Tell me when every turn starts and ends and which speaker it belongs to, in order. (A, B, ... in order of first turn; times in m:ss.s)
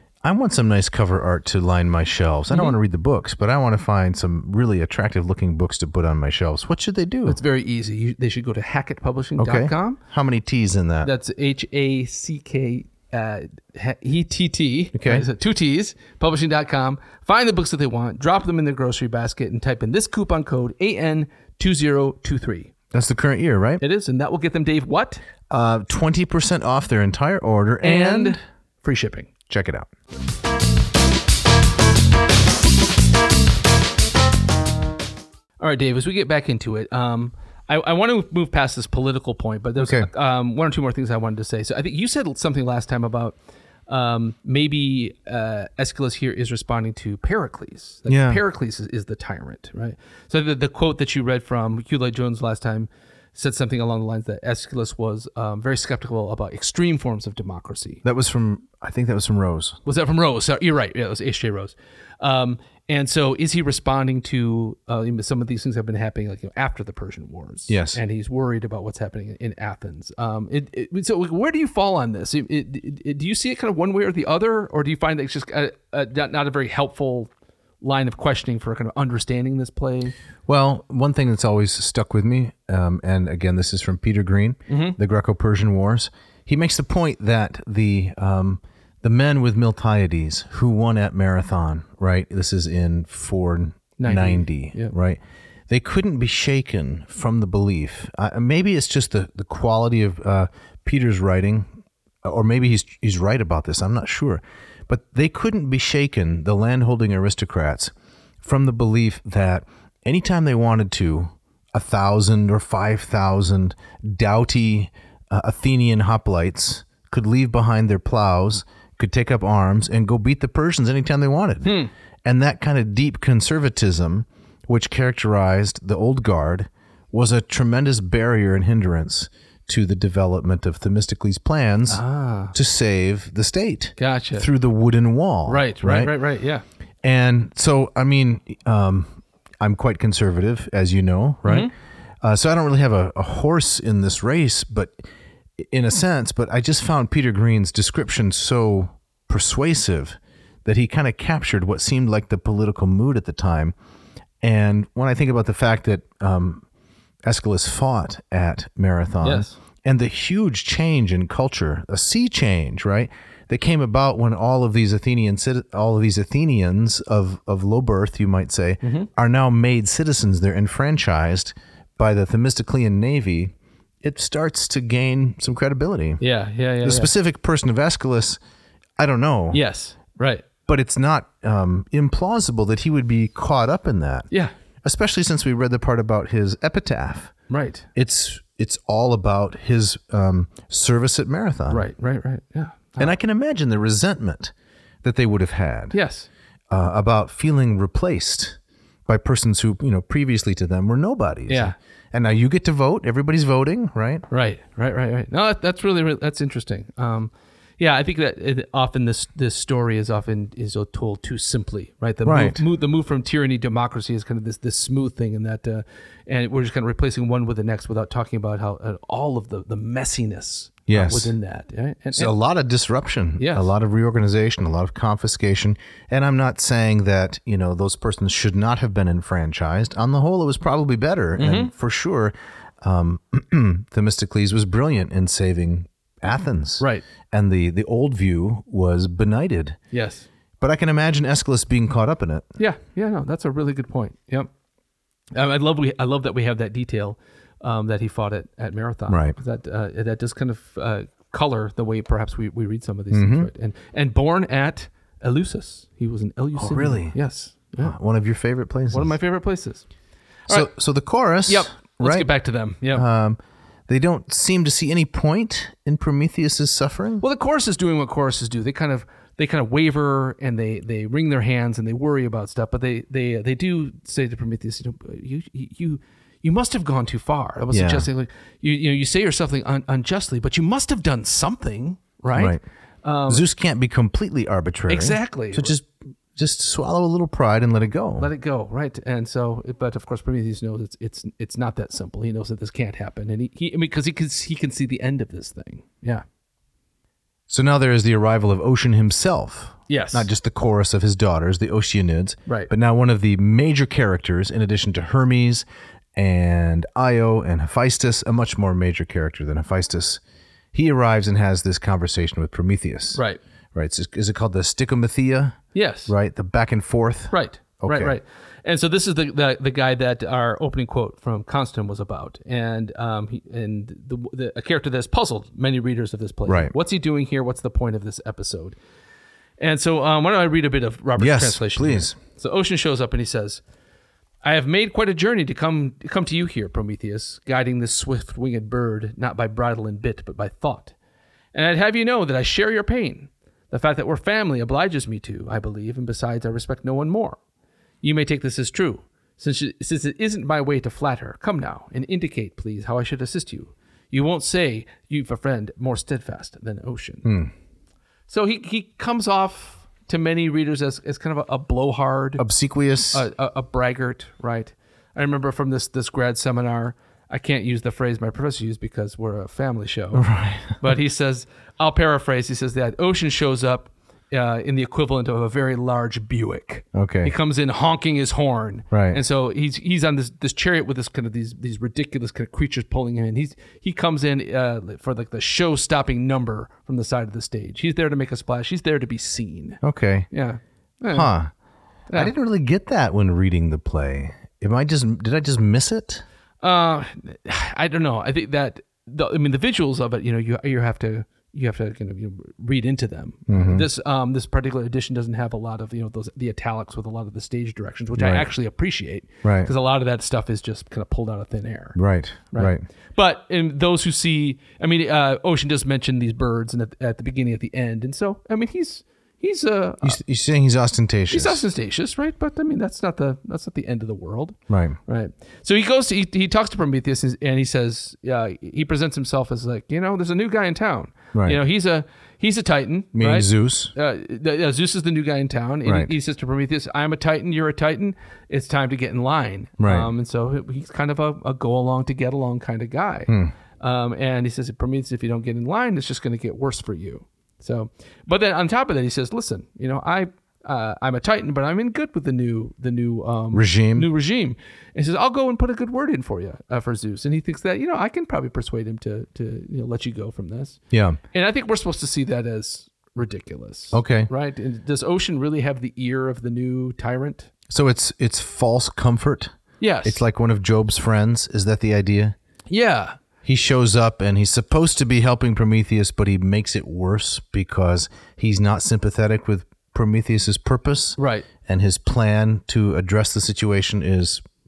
0:00.2-0:07.4 A
0:07.2-0:10.0 B
0:09.4-0:11.1 A
0:11.0-0:22.7 B
0:14.9-0:15.3 A
0:22.9-0:23.8 A
0:23.8-0:25.2 B
0:25.5-0:28.4 A
0:27.8-0:29.3 B
0:29.5-0:29.9 A
0:35.6-0:43.4 B
0:39.8-0:40.1 A
0:43.9-0:58.0 B
0:48.1-0:48.4 A
0:58.0-0:59.8 A
0:59.9-1:20.1 B
1:07.7-1:08.0 A
1:20.5-1:41.7 A
1:24.7-1:25.0 B
1:34.0-1:34.9 B
1:42.2-2:12.0 A
2:01.6-2:01.9 B
2:11.9-2:12.5 B
2:12.5-2:16.1 A
2:14.0-2:14.5 B
2:15.5-2:16.6 B
2:17.0-2:21.7 A
2:21.4-2:21.7 B
2:22.2-2:25.0 A
2:25.6-2:33.7 A
2:34.4-2:36.6 A
2:37.2-2:56.2 A
2:39.2-2:39.6 B
2:48.8-2:49.1 B
2:56.2-2:57.1 B
2:56.8-2:58.4 A
2:59.0-2:59.6 A
2:59.5-3:00.4 B
3:00.6-3:04.3 A
3:04.8-3:07.3 A
3:07.5-3:07.9 B
3:07.9-3:11.9 A
3:11.7-3:13.1 B
3:13.0-3:15.9 A
3:15.9-3:16.3 B
3:16.7-3:24.2 A
3:21.5-3:21.7 B
3:24.3-3:42.3 B
3:32.2-3:32.6 A
3:40.9-3:41.3 A
3:42.1-3:59.8 A
3:43.4-3:43.7 B
3:51.4-3:51.7 B
3:56.8-3:57.0 B
3:59.9-4:00.2 B
4:00.6-4:02.4 A
4:02.6-4:04.5 B
4:05.3-4:17.9 B
4:09.1-4:09.4 A
4:13.1-4:13.5 A
4:16.6-4:17.2 A
4:17.8-4:19.1 A
4:18.9-4:19.8 B
4:20.5-4:22.3 A
4:21.5-4:23.0 B
4:22.9-4:27.2 A
4:27.2-4:43.4 B
4:37.7-4:38.1 A
4:42.3-4:42.6 A
4:43.3-4:48.3 A
4:44.9-4:45.8 B
4:48.2-4:56.2 B
4:57.5-5:05.6 A
4:59.9-5:00.3 B
5:06.2-5:10.2 A
5:10.7-5:13.2 A
5:13.1-5:13.4 B
5:13.7-5:18.2 A
5:15.7-5:16.1 B
5:17.3-5:28.8 B
5:26.5-5:26.7 A
5:29.6-5:33.6 B
5:31.2-5:32.2 A
5:34.4-5:40.9 B
5:41.5-5:47.4 B
5:48.0-5:57.3 B
5:57.2-5:57.5 A
5:58.3-6:02.4 B
6:02.4-6:03.2 A
6:03.1-6:10.2 B
6:10.1-6:10.8 A
6:10.8-6:29.8 B
6:16.9-6:17.3 A
6:18.9-6:19.2 A
6:29.8-6:30.3 A
6:30.3-6:31.3 B
6:31.1-6:31.5 A
6:32.1-6:36.2 A
6:36.6-6:52.0 B
6:43.5-6:43.9 A
6:48.2-6:48.5 A
6:49.4-6:49.7 A
6:51.9-6:52.8 A
6:52.5-7:00.2 B
7:00.0-7:01.6 A
7:01.3-7:40.8 B
7:04.7-7:05.0 A
7:11.3-7:11.6 A
7:13.1-7:13.9 A
7:15.8-7:16.1 A
7:19.8-7:20.1 A
7:23.3-7:23.5 A
7:33.5-7:34.1 A
7:40.9-7:41.2 A
7:41.3-7:47.5 B
7:43.9-7:44.3 A
7:47.7-7:49.5 A
7:49.8-7:50.2 B
7:50.0-7:52.4 A
7:52.7-7:53.2 B
7:53.4-8:04.4 A
8:01.2-8:01.5 B